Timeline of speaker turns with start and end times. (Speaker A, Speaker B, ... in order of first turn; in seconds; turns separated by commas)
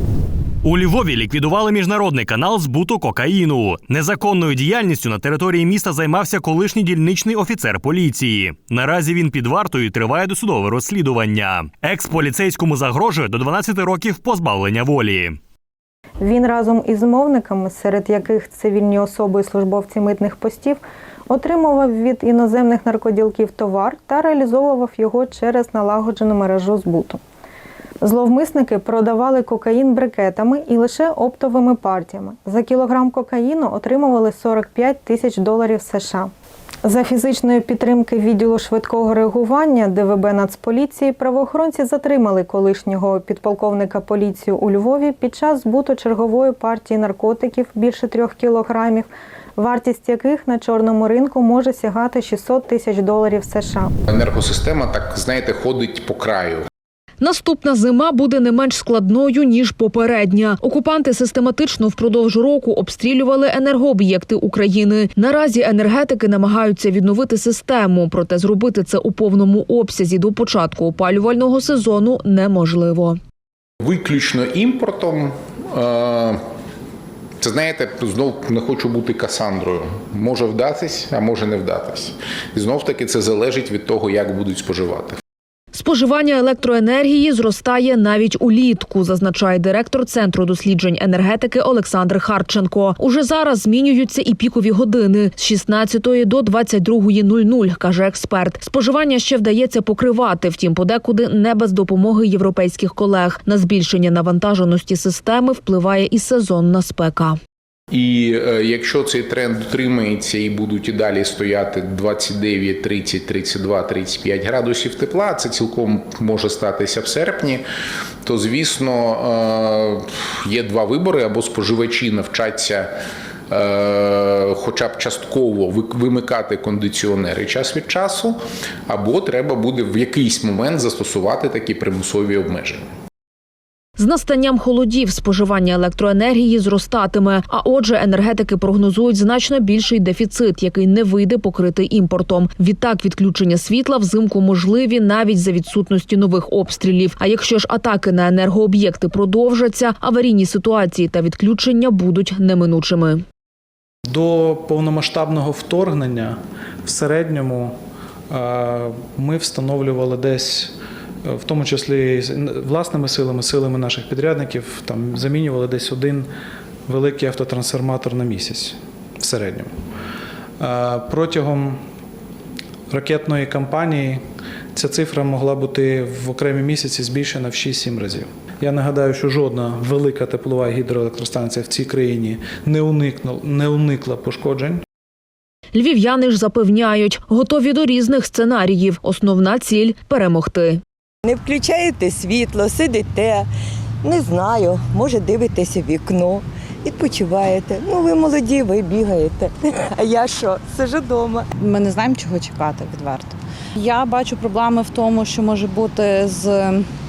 Speaker A: 0.6-15.4, Speaker B: 16.2-27.2, Speaker B: 28.0-36.3, Speaker B: 36.9-53.9, Speaker C: 54.1-56.7, Speaker D: 57.2-73.2, Speaker C: 73.8-76.4, Speaker C: 77.4-85.2, Speaker D: 85.7-107.4, Speaker C: 107.9-117.7, Speaker C: 118.2-122.9, Speaker C: 123.5-132.9, Speaker D: 134.0-153.2, Speaker E: 154.1-157.7, Speaker E: 158.3-166.3, Speaker E: 166.9-169.7, Speaker E: 170.6-171.8, Speaker E: 172.9-174.2, Speaker E: 174.7-184.8, Speaker D: 185.7-190.8, Speaker F: 191.2-193.5, Speaker F: 194.0-201.5, Speaker G: 201.6-206.9